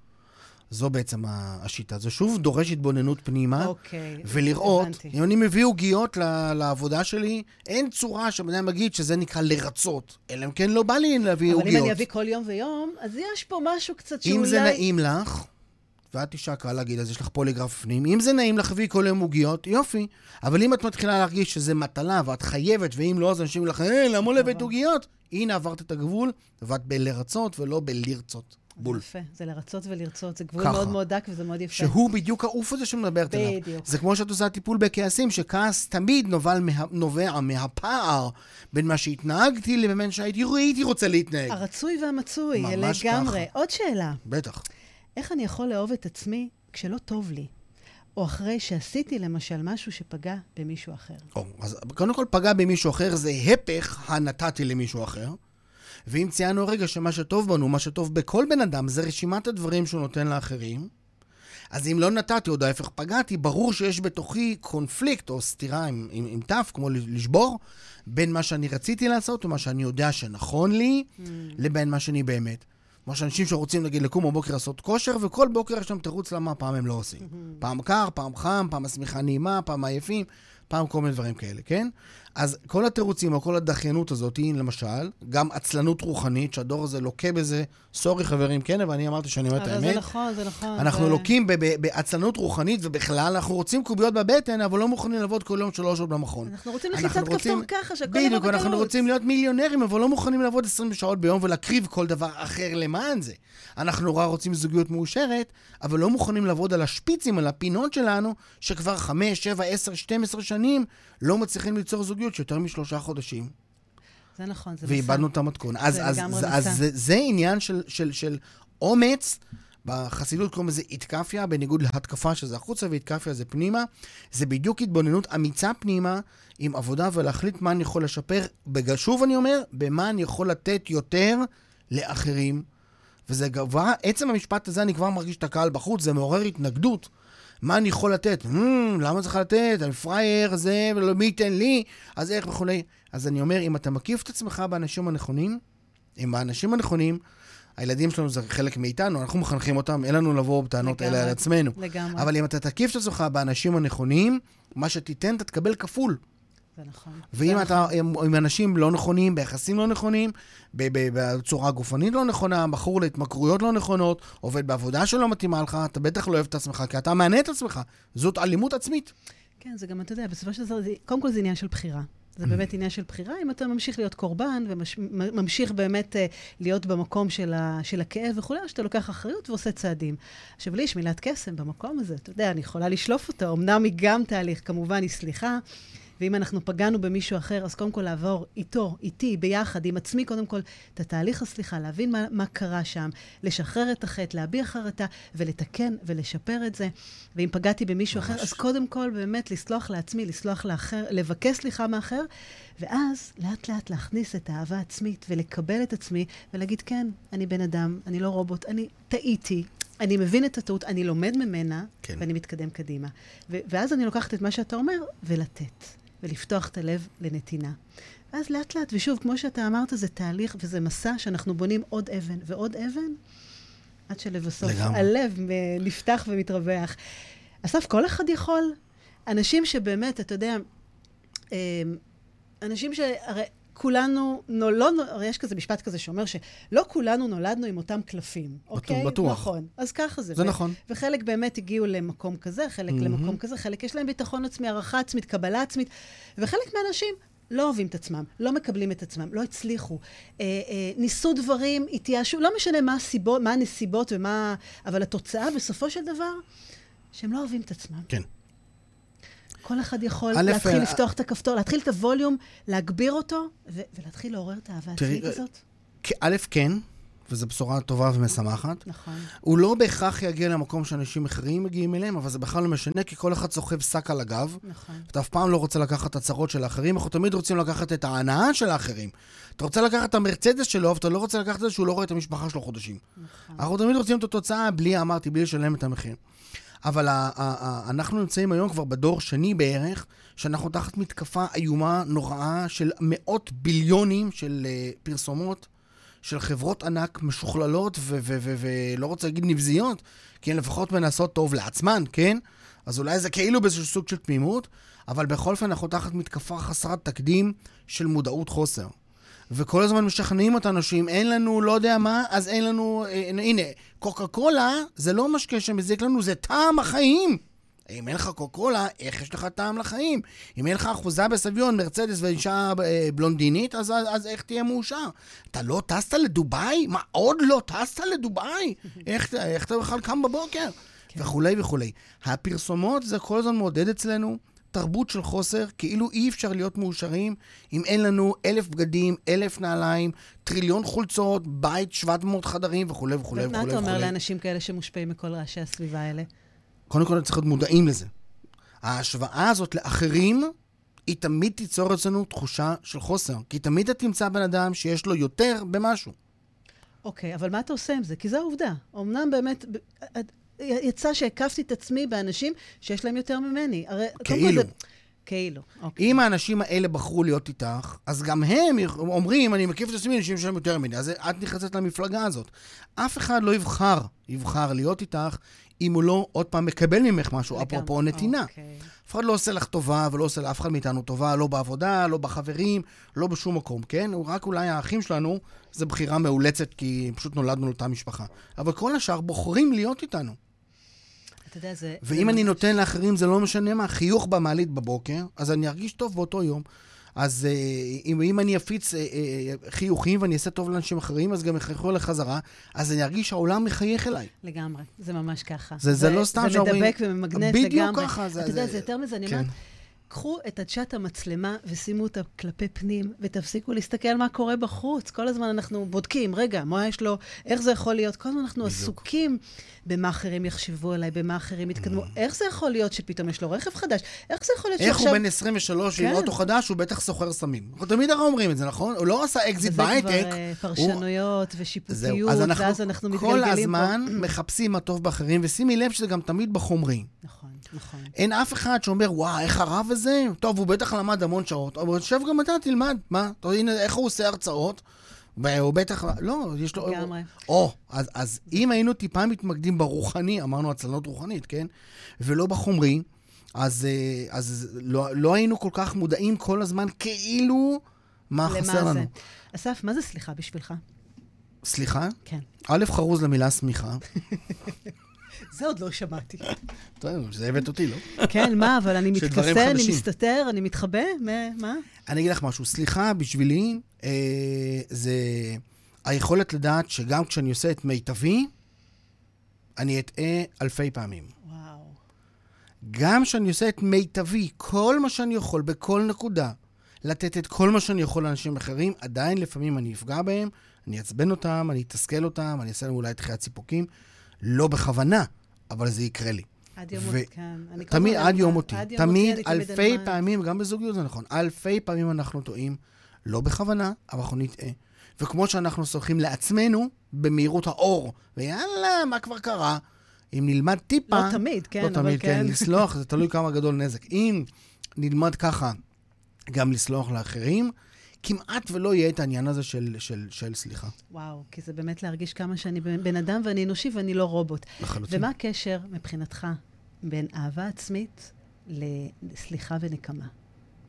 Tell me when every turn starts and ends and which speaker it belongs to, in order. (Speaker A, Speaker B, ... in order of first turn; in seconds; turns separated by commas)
Speaker A: 0.7-3.7, Speaker B: 3.6-5.1, Speaker A: 4.2-12.0, Speaker B: 11.5-14.8, Speaker A: 14.2-15.5, Speaker A: 16.1-29.0, Speaker B: 24.2-24.7, Speaker B: 28.8-31.9, Speaker A: 30.6-30.9, Speaker A: 31.7-41.6, Speaker B: 33.3-33.9, Speaker B: 41.5-44.2, Speaker A: 42.5-43.5, Speaker A: 44.2-44.6, Speaker B: 45.2-47.5, Speaker B: 48.1-51.3, Speaker A: 51.3-55.4, Speaker A: 56.1-60.9, Speaker A: 61.7-90.0, Speaker B: 71.2-71.6, Speaker B: 77.2-77.6, Speaker B: 89.5-91.3, Speaker A: 90.7-113.5, Speaker B: 96.4-99.0, Speaker B: 114.4-115.3, Speaker A: 114.8-132.6, Speaker B: 115.8-116.8, Speaker A: 133.3-137.1, Speaker A: 137.6-145.6, Speaker A: 146.2-147.2, Speaker A: 147.8-156.2, Speaker B: 150.8-152.3, Speaker B: 156.8-157.9, Speaker A: 157.3-169.1, Speaker B: 169.6-185.6, Speaker B: 186.2-202.3, Speaker A: 198.1-198.6, Speaker B: 202.8-217.8, Speaker B: 218.3-223.2, Speaker B: 224.1-226.9, Speaker A: 224.6-225.1, Speaker B: 227.6-228.8, Speaker B: 229.3-230.6, Speaker B: 231.5-232.0, Speaker B: 232.6-256.4, Speaker A: 238.7-239.5, Speaker A: 240.3-240.8, Speaker A: 242.9-243.4, Speaker B: 257.1-258.1, Speaker B: 259.6-265.6, Speaker A: 260.3-261.0, Speaker A: 265.0-265.4, Speaker A: 266.0-268.8, Speaker B: 268.9-269.3, Speaker A: 269.4-283.0, Speaker B: 274.6-275.1, Speaker B: 283.2-283.6, Speaker A: 283.6-286.2, Speaker A: 286.8-295.7, Speaker A: 296.2-308.9, Speaker A: 309.5-344.1, Speaker B: 343.3-346.3, Speaker A: 346.9-348.1, Speaker A: 348.8-350.5, Speaker A: 351.1-356.1, Speaker B: 357.1-364.7, Speaker A: 364.2-364.7, Speaker B: 365.2-366.2, Speaker A: 366.0-378.5, Speaker B: 377.5-378.9, Speaker A: 379.1-390.4, Speaker B: 391.5-392.8, Speaker A: 392.0-396.6, Speaker A: 397.1-404.3, Speaker B: 404.4-409.5, Speaker A: 405.8-409.5, Speaker B: 410.1-425.2, Speaker A: 418.6-419.0, Speaker A: 421.8-422.1, Speaker A: 424.8-431.0, Speaker B: 425.9-426.3, Speaker B: 429.6-434.3, Speaker A: 431.9-437.1, Speaker B: 437.2-438.1, Speaker A: 438.1-444.8, Speaker A: 445.4-459.1, Speaker B: 446.8-447.4, Speaker B: 458.4-460.8, Speaker A: 461.6-464.0, Speaker B: 464.3-464.7, Speaker B: 465.5-466.5, Speaker A: 467.0-470.1, Speaker B: 468.2-471.8, Speaker A: 472.1-478.5, Speaker A: 479.8-481.3, Speaker B: 481.4-482.0, Speaker A: 482.8-493.9, Speaker A: 494.4-497.3, Speaker B: 496.8-500.2, Speaker A: 497.8-509.8, Speaker A: 510.3-515.8, Speaker B: 511.1-512.8, Speaker A: 516.5-520.9, Speaker B: 521.1-530.3, Speaker A: 524.8-525.3